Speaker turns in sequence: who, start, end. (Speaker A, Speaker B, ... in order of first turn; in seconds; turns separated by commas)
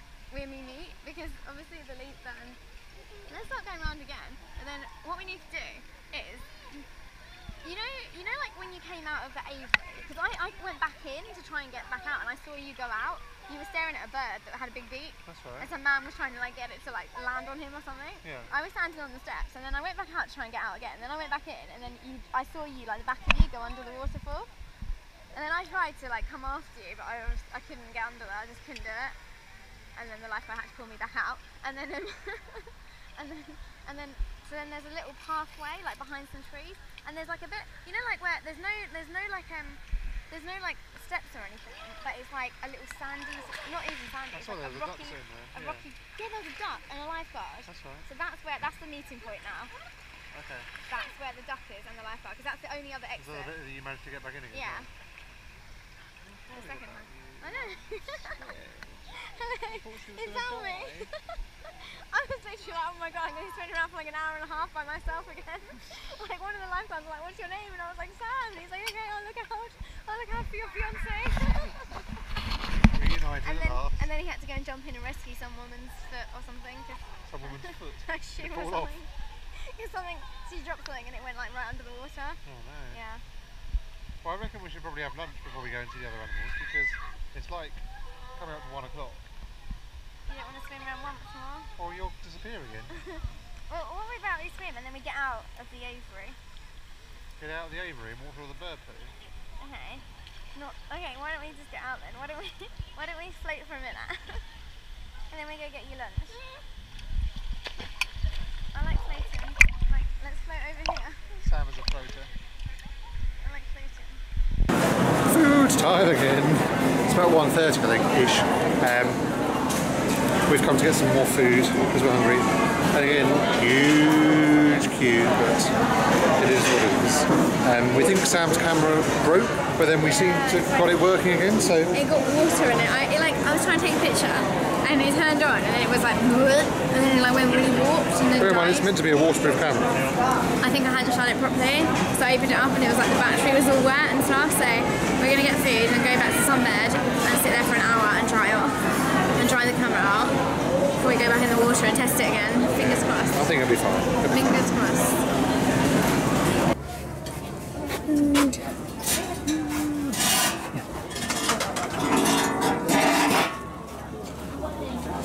Speaker A: 0.3-2.6, Speaker A: 3.3-6.9, Speaker A: 7.6-24.5, Speaker B: 15.2-15.7, Speaker B: 18.2-18.5, Speaker A: 25.3-29.2, Speaker A: 29.9-49.7, Speaker B: 44.3-45.9, Speaker B: 47.6-48.1, Speaker B: 50.3-50.7, Speaker A: 50.8-53.5, Speaker B: 53.2-54.9, Speaker A: 54.5-54.9, Speaker B: 56.2-61.1, Speaker A: 56.5-58.4, Speaker A: 59.2-72.0, Speaker B: 72.8-74.0, Speaker A: 73.4-83.2, Speaker B: 77.2-79.0, Speaker B: 82.4-83.0, Speaker B: 84.2-89.2, Speaker A: 90.3-91.7, Speaker B: 91.8-92.9, Speaker A: 92.9-96.4, Speaker B: 97.4-99.2, Speaker A: 99.6-104.5, Speaker A: 105.3-106.5, Speaker A: 108.7-111.5, Speaker B: 111.4-112.3, Speaker A: 113.4-114.2, Speaker B: 115.3-119.2, Speaker B: 120.5-125.7, Speaker B: 126.4-131.9, Speaker A: 130.1-130.9, Speaker A: 131.9-138.9, Speaker B: 138.4-140.0, Speaker A: 140.6-148.8, Speaker A: 149.3-150.4, Speaker A: 151.0-153.5, Speaker B: 152.7-154.6, Speaker A: 154.3-155.2, Speaker A: 158.1-158.6, Speaker B: 159.4-160.2